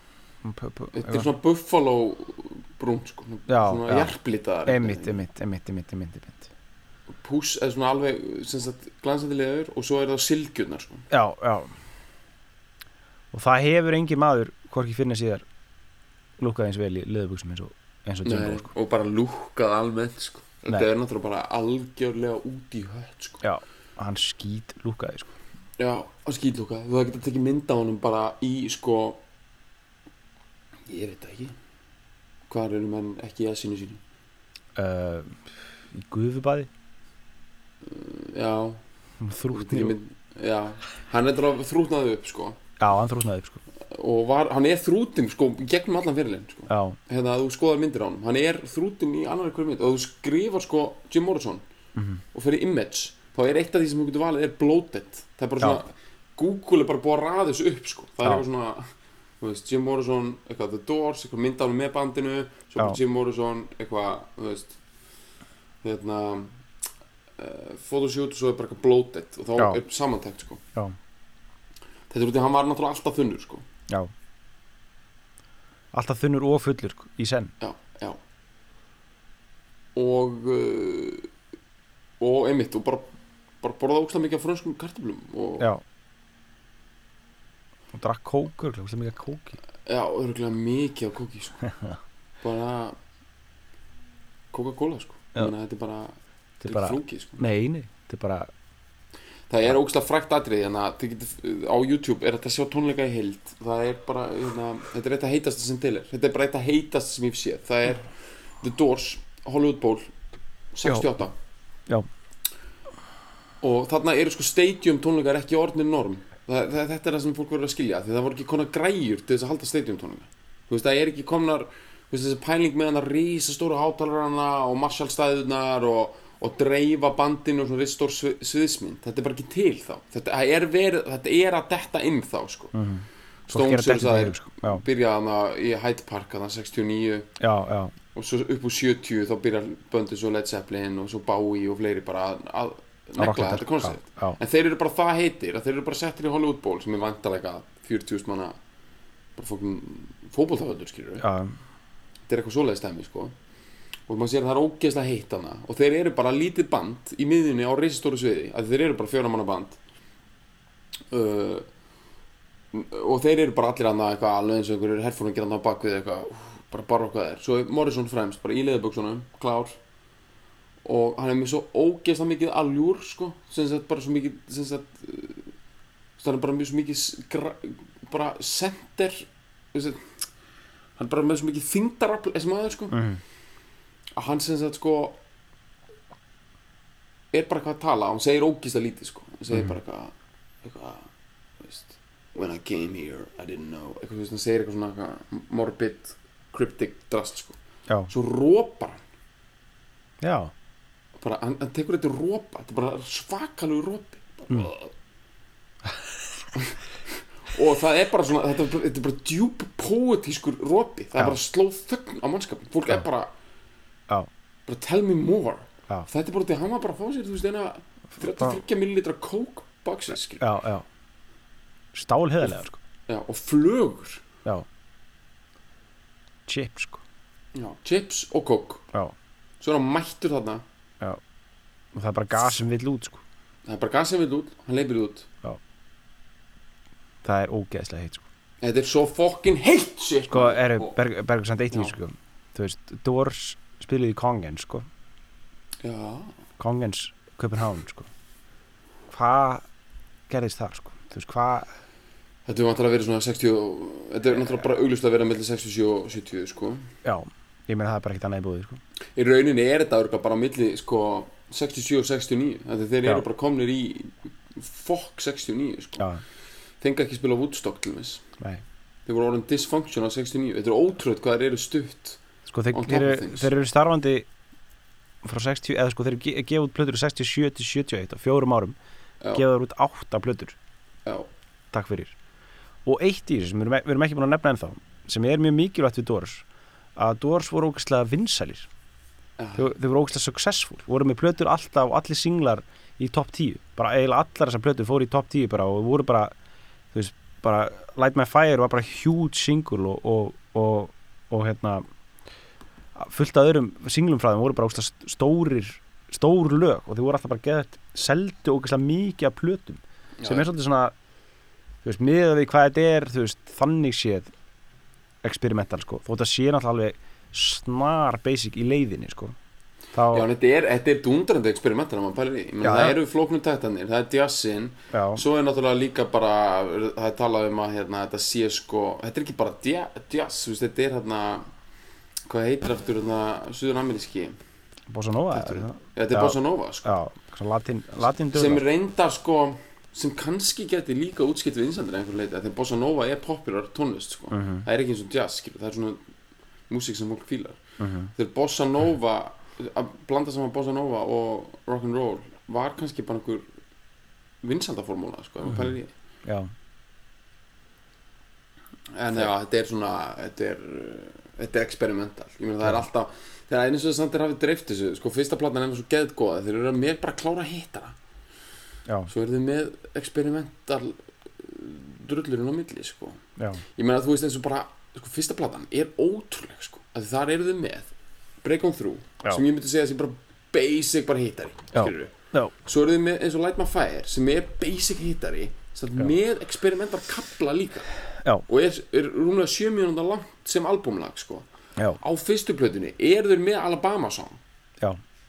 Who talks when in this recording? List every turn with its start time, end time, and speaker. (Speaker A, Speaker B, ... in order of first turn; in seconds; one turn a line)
Speaker A: 0.4-1.3
Speaker B: 0.9-5.2
Speaker A: 3.5-6.5
Speaker B: 7.2-11.1
Speaker A: 11.1-11.7
Speaker A: 13.3-15.4
Speaker A: 16.4-18.7
Speaker B: 18.2-23.4
Speaker A: 23.4-25.3
Speaker B: 25.8-29.2
Speaker B: 30.9-31.6
Speaker B: 32.5-34.0
Speaker A: 34.8-36.7
Speaker B: 37.8-38.8
Speaker A: 39.2-40.0
Speaker B: 39.5-42.6
Speaker A: 42.8-43.6
Speaker B: 43.9-51.6
Speaker A: 46.7-47.0
Speaker A: 52.0-52.2
Speaker B: 52.3-58.8
Speaker B: 59.4-64.8
Speaker B: 65.8-66.5
Speaker B: 67.4-70.6
Speaker B: 72.1-73.7
Speaker A: 75.9-77.5
Speaker B: 77.6-78.2
Speaker B: 80.0-81.3
Speaker B: 82.2-83.1
Speaker B: 83.6-85.7
Speaker A: 87.9-89.6
Speaker B: 89.9-91.7
Speaker B: 92.4-93.0
Speaker B: 94.5-97.4
Speaker A: 96.6-98.5
Speaker B: 99.5-110.1
Speaker B: 110.7-111.3
Speaker B: 113.6-132.8
Speaker A: 132.7-134.8
Speaker B: 133.5-137.3
Speaker A: 137.4-137.9
Speaker B: 138.1-148.6
Speaker A: 143.2-144.4
Speaker B: 149.4-151.3
Speaker A: 151.2-151.5
Speaker B: 152.3-153.3
Speaker B: 154.1-159.8
Speaker B: 161.1-161.7
Speaker B: 162.7-169.8
Speaker B: 170.8-175.5
Speaker B: 176.2-180.0
Speaker B: 181.0-183.0
Speaker A: 182.9-183.2
Speaker B: 184.2-185.2
Speaker B: 187.3-191.1
Speaker B: 191.6-197.6
Speaker B: 198.1-199.0
Speaker A: 200.2-200.5
Speaker B: 201.2-204.9
Speaker B: 207.5-213.3
Speaker B: 214.7-220.5
Speaker A: 218.2-218.6
Speaker A: 220.4-220.8
Speaker A: 221.9-222.8
Speaker B: 223.1-224.2
Speaker A: 226.5-227.0
Speaker B: 227.6-228.9
Speaker B: 229.6-230.6
Speaker A: 231.9-233.2
Speaker B: 233.7-235.3
Speaker A: 237.2-238.2
Speaker B: 238.6-241.0
Speaker A: 240.3-244.9
Speaker B: 245.8-246.3
Speaker A: 246.6-248.1
Speaker A: 249.1-249.7
Speaker A: 250.3-251.7
Speaker B: 252.5-256.9
Speaker A: 257.0-258.8
Speaker B: 259.2-266.1
Speaker B: 266.8-268.2
Speaker B: 269.1-273.5
Speaker A: 272.5-274.3
Speaker A: 275.2-278.8
Speaker A: 279.3-280.6
Speaker A: 281.7-282.1
Speaker A: 282.9-286.4
Speaker A: 287.0-288.7
Speaker B: 289.4-289.7
Speaker A: 289.6-296.3
Speaker A: 296.9-301.9
Speaker A: 302.9-310.9
Speaker B: 310.2-310.5
Speaker A: 311.8-314.3
Speaker A: 315.2-319.4
Speaker A: 319.9-320.3
Speaker B: 320.1-331.5
Speaker A: 322.6-323.0
Speaker A: 324.9-325.2
Speaker B: 332.3-334.4
Speaker A: 334.9-338.6
Speaker B: 335.3-336.9
Speaker B: 338.3-346.0
Speaker A: 344.3-344.7
Speaker B: 346.7-347.6
Speaker A: 347.8-348.1
Speaker B: 348.1-353.4
Speaker B: 354.4-355.9
Speaker A: 355.5-356.5
Speaker B: 358.9-368.0
Speaker B: 369.1-373.2
Speaker A: 373.4-373.6
Speaker B: 373.8-377.9
Speaker B: 378.4-382.1
Speaker A: 381.8-382.5
Speaker B: 382.6-387.9
Speaker B: 388.5-391.5
Speaker B: 392.0-394.4